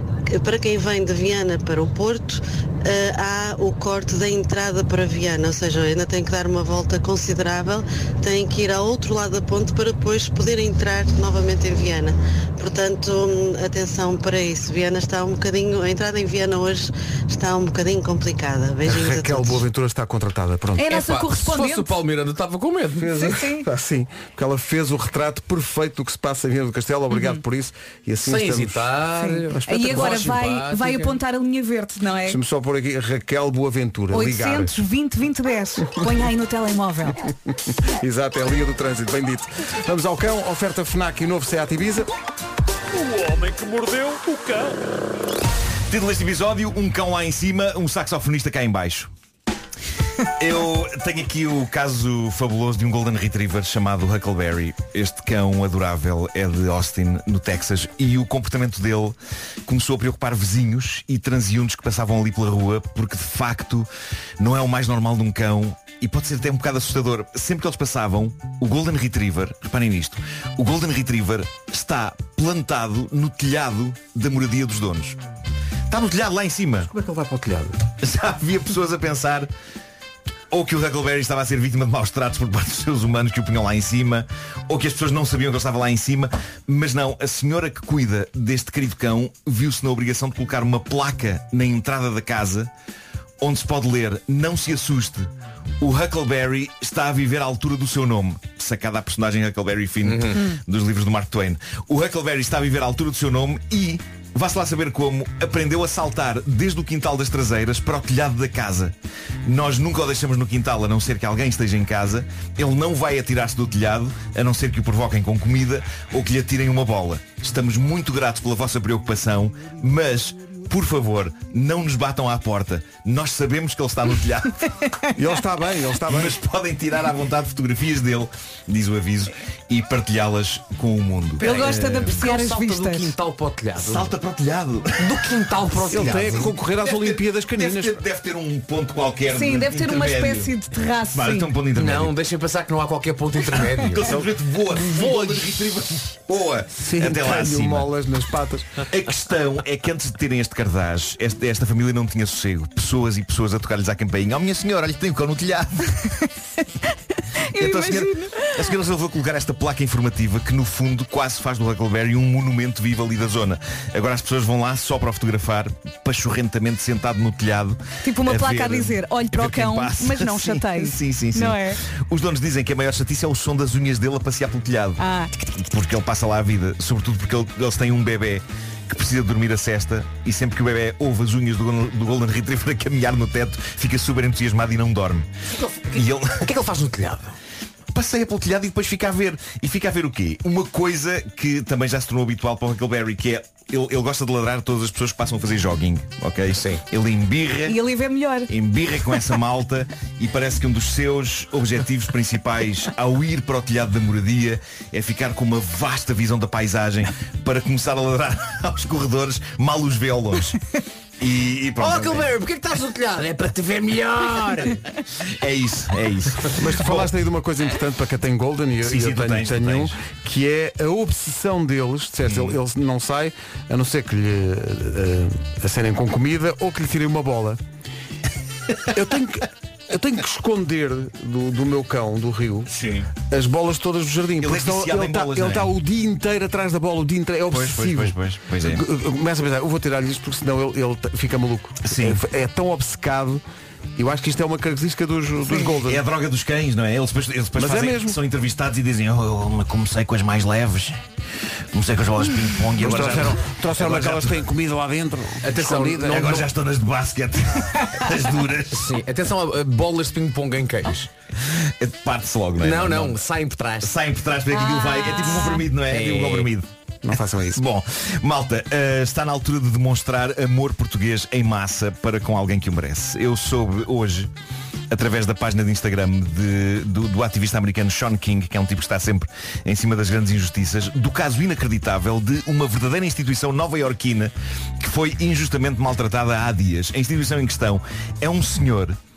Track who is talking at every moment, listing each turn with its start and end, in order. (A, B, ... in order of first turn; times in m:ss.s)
0:00.3-0:19.6 A
0:18.8-0:20.9 B
0:20.8-0:21.9 C
0:20.9-0:23.3 D
0:23.0-0:30.2 B
0:23.2-0:23.7 C
0:27.1-0:27.4 C
0:28.2-0:31.2 D
0:29.4-0:32.4 C
0:32.3-0:34.8 B
0:34.1-0:37.2 C
0:37.7-0:42.1 B
0:45.9-0:49.1 E
0:50.4-1:03.9 E
1:04.4-1:15.2 E
1:15.9-1:16.9 E
1:16.9-1:17.8 B
1:18.0-1:19.5 E
1:20.5-1:32.7 E
1:33.4-2:04.7 E
1:40.0-1:40.4 D
2:05.2-2:06.4 B
2:06.1-2:11.8 E
2:11.4-2:14.1 D
2:11.4-2:13.1 C
2:13.8-2:15.3 E
2:15.0-2:16.5 D
2:15.9-2:18.0 B
2:15.9-2:20.5 E
2:19.3-2:21.5 C
2:21.1-2:22.2 E
2:21.8-2:24.2 D
2:23.8-2:27.9 E
2:26.8-2:28.9 B
2:28.9-2:35.9 E
2:36.9-2:38.7 C
2:37.6-2:55.0 E
2:48.0-2:51.8 C
2:55.0-2:55.4 C
2:55.5-3:05.3 E
3:05.9-3:06.5 E
3:06.0-3:07.4 D
3:07.9-3:17.8 E
3:16.5-3:16.8 D
3:17.7-3:18.5 C
3:18.5-3:30.6 E
3:31.2-3:32.3 E
3:31.8-3:34.8 D
3:35.4-3:37.1 E
3:36.5-3:47.6 B
3:38.8-3:40.0 E
3:42.2-3:42.6 E
3:48.9-3:52.7 B
3:52.7-3:53.1 E
3:53.2-4:03.4 B
3:54.4-3:55.7 E
3:57.5-3:58.8 E
4:01.8-4:02.2 E
4:04.0-4:06.0 B
4:05.5-4:11.0 E
4:07.6-4:08.2 B
4:11.7-4:14.4 E
4:12.8-4:16.4 B
4:15.4-4:16.5 D
4:16.1-4:18.9 E
4:18.7-4:21.1 D
4:21.5-4:23.2 E
4:22.6-4:24.0 D
4:23.8-4:26.7 E
4:24.6-4:25.6 C
4:25.8-4:26.5 D
4:27.0-4:27.6 B
4:27.5-4:34.3 E
4:34.9-4:49.0 E